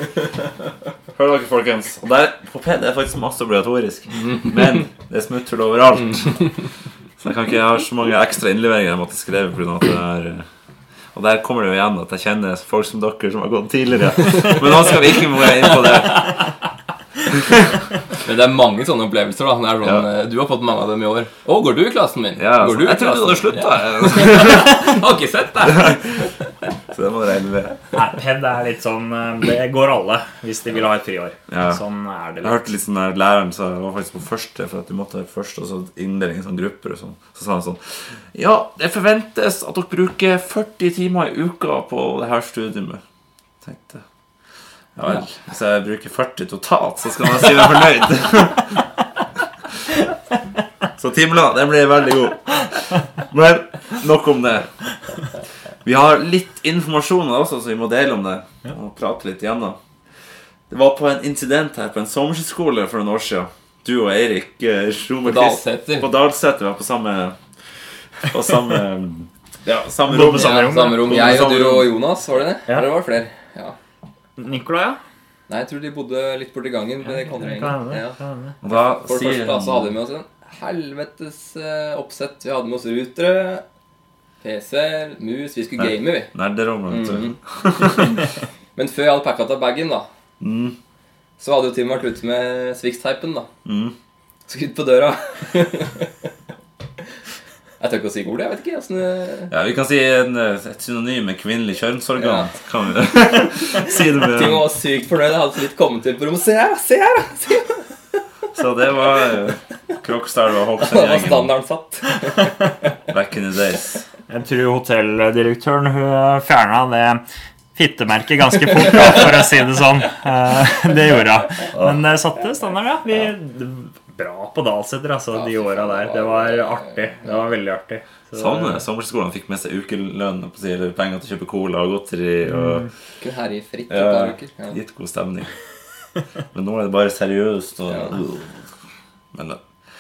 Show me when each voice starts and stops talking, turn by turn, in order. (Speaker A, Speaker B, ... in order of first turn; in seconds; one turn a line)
Speaker A: 1.1-6.6
Speaker A: 7.2-10.4
Speaker A: 11.1-16.4
Speaker B: 18.2-26.4
Speaker A: 22.4-24.9
Speaker A: 25.7-26.0
Speaker A: 26.9-27.8
Speaker C: 27.9-32.6
Speaker A: 31.5-31.8
Speaker A: 32.4-43.0
Speaker A: 43.6-44.0
Speaker A: 45.0-48.7
Speaker A: 51.0-54.7
Speaker A: 55.8-59.8
Speaker A: 60.7-67.3
Speaker B: 65.2-66.1
Speaker A: 68.2-71.9
Speaker C: 70.0-71.3
Speaker B: 70.3-73.8
Speaker C: 74.4-75.0
Speaker B: 75.5-78.2
Speaker C: 77.0-78.5
Speaker A: 78.6-79.9
Speaker B: 78.7-83.6
Speaker B: 84.4-86.3
Speaker A: 85.8-88.2
Speaker B: 86.9-90.1
Speaker A: 90.4-90.8
Speaker B: 91.4-93.5
Speaker A: 93.6-93.9
Speaker B: 94.5-96.3
Speaker B: 97.8-99.5
Speaker A: 99.5-104.7
Speaker B: 102.2-102.5
Speaker B: 104.1-107.9
Speaker A: 108.5-111.5
Speaker B: 110.8-112.9
Speaker A: 113.1-114.0
Speaker C: 114.3-117.2
Speaker C: 117.7-128.8
Speaker B: 125.3-127.5
Speaker A: 128.3-132.9
Speaker C: 132.5-132.9
Speaker B: 133.2-134.8
Speaker A: 133.9-135.5
Speaker A: 136.5-138.6
Speaker A: 139.3-139.6